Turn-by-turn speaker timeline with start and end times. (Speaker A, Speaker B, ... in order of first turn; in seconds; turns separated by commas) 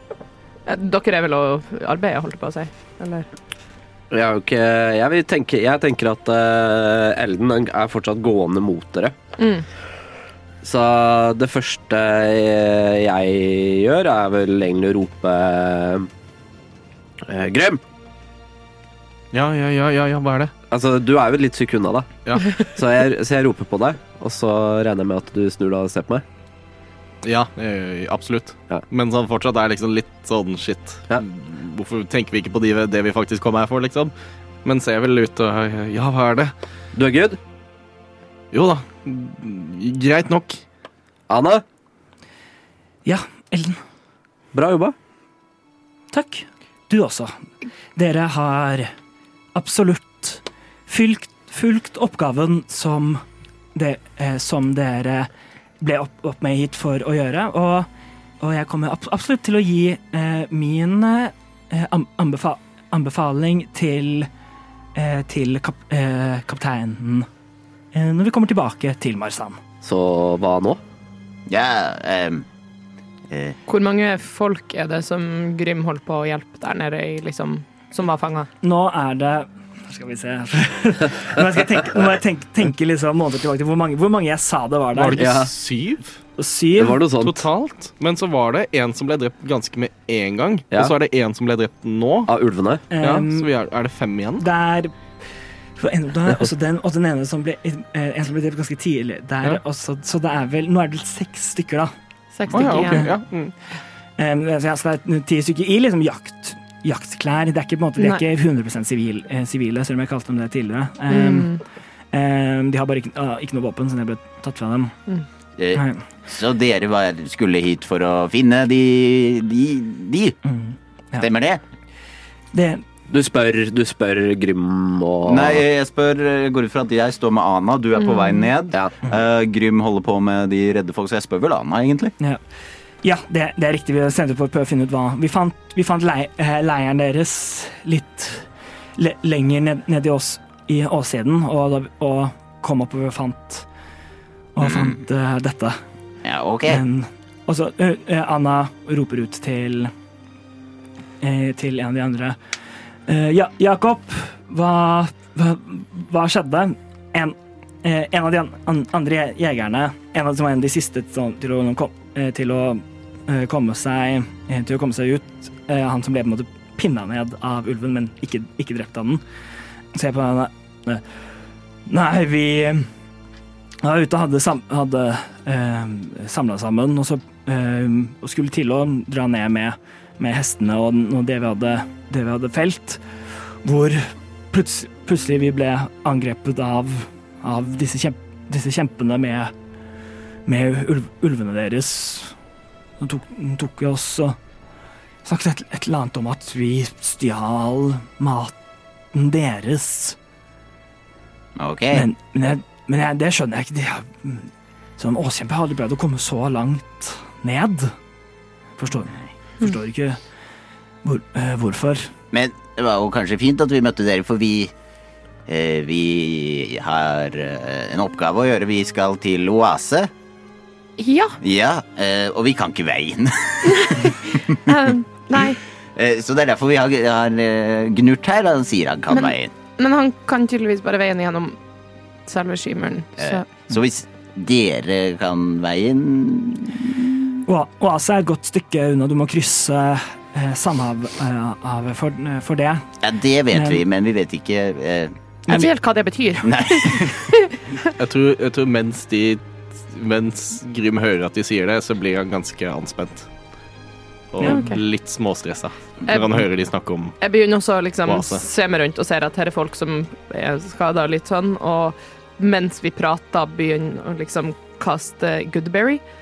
Speaker A: 0.7-3.2, Speaker B: 4.1-9.2, Speaker A: 9.4-9.6, Speaker B: 10.6-16.1, Speaker B: 17.3-17.8, Speaker C: 19.3-20.5, Speaker B: 20.7-26.2, Speaker C: 22.2-22.6, Speaker C: 27.2-34.1, Speaker C: 34.6-36.5, Speaker B: 36.9-37.4, Speaker C: 38.5-40.6, Speaker B: 41.3-41.6, Speaker D: 43.0-43.8, Speaker B: 44.5-44.9, Speaker D: 46.1-47.3, Speaker D: 48.0-48.9, Speaker D: 49.5-53.2, Speaker D: 53.7-57.9, Speaker D: 58.4-64.3, Speaker D: 64.9-67.3, Speaker D: 67.9-69.6, Speaker B: 69.8-70.8, Speaker E: 71.5-72.4, Speaker E: 73.3-73.5, Speaker A: 73.7-78.5, Speaker D: 78.6-85.3, Speaker C: 84.9-86.2, Speaker B: 85.1-85.5, Speaker D: 86.4-87.1, Speaker B: 86.8-87.4, Speaker C: 87.2-92.3, Speaker B: 92.3-92.8, Speaker D: 92.9-93.5, Speaker C: 93.0-94.4, Speaker D: 94.4-95.0, Speaker D: 95.8-101.9, Speaker A: 102.3-103.0, Speaker C: 102.5-103.5, Speaker D: 102.5-103.2, Speaker D: 104.2-111.6, Speaker A: 111.1-111.6, Speaker D: 112.1-115.0, Speaker E: 115.6-120.3, Speaker D: 115.7-116.0, Speaker D: 120.4-121.3, Speaker E: 121.2-121.6, Speaker D: 122.5-122.8, Speaker B: 123.1-125.6, Speaker E: 125.2-132.1, Speaker A: 128.0-128.5, Speaker D: 133.0-143.7, Speaker D: 144.5-145.8, Speaker E: 144.6-145.0, Speaker E: 146.2-146.8, Speaker D: 146.7-149.9, Speaker D: 151.2-152.3, Speaker D: 153.1-169.2, Speaker D: 169.9-171.0, Speaker D: 171.8-172.9, Speaker D: 173.8-189.5, Speaker D: 190.4-192.3, Speaker D: 193.0-194.4, Speaker D: 195.2-198.5, Speaker D: 199.1-200.2, Speaker E: 201.6-202.1, Speaker D: 201.9-207.9, Speaker D: 208.8-210.2, Speaker D: 211.0-212.1, Speaker E: 212.3-214.7, Speaker E: 215.5-220.1, Speaker A: 221.0-221.4, Speaker E: 221.4-224.8, Speaker A: 224.6-225.6, Speaker E: 225.3-229.5, Speaker A: 229.1-231.6, Speaker A: 232.2-233.5, Speaker E: 233.2-237.3, Speaker D: 237.4-242.9, Speaker E: 243.0-245.7, Speaker D: 243.5-243.8, Speaker A: 245.5-247.5, Speaker E: 246.4-247.3, Speaker C: 248.0-253.3, Speaker C: 254.3-257.2, Speaker A: 254.4-254.8, Speaker A: 256.1-256.4, Speaker A: 257.2-266.0, Speaker C: 258.0-258.4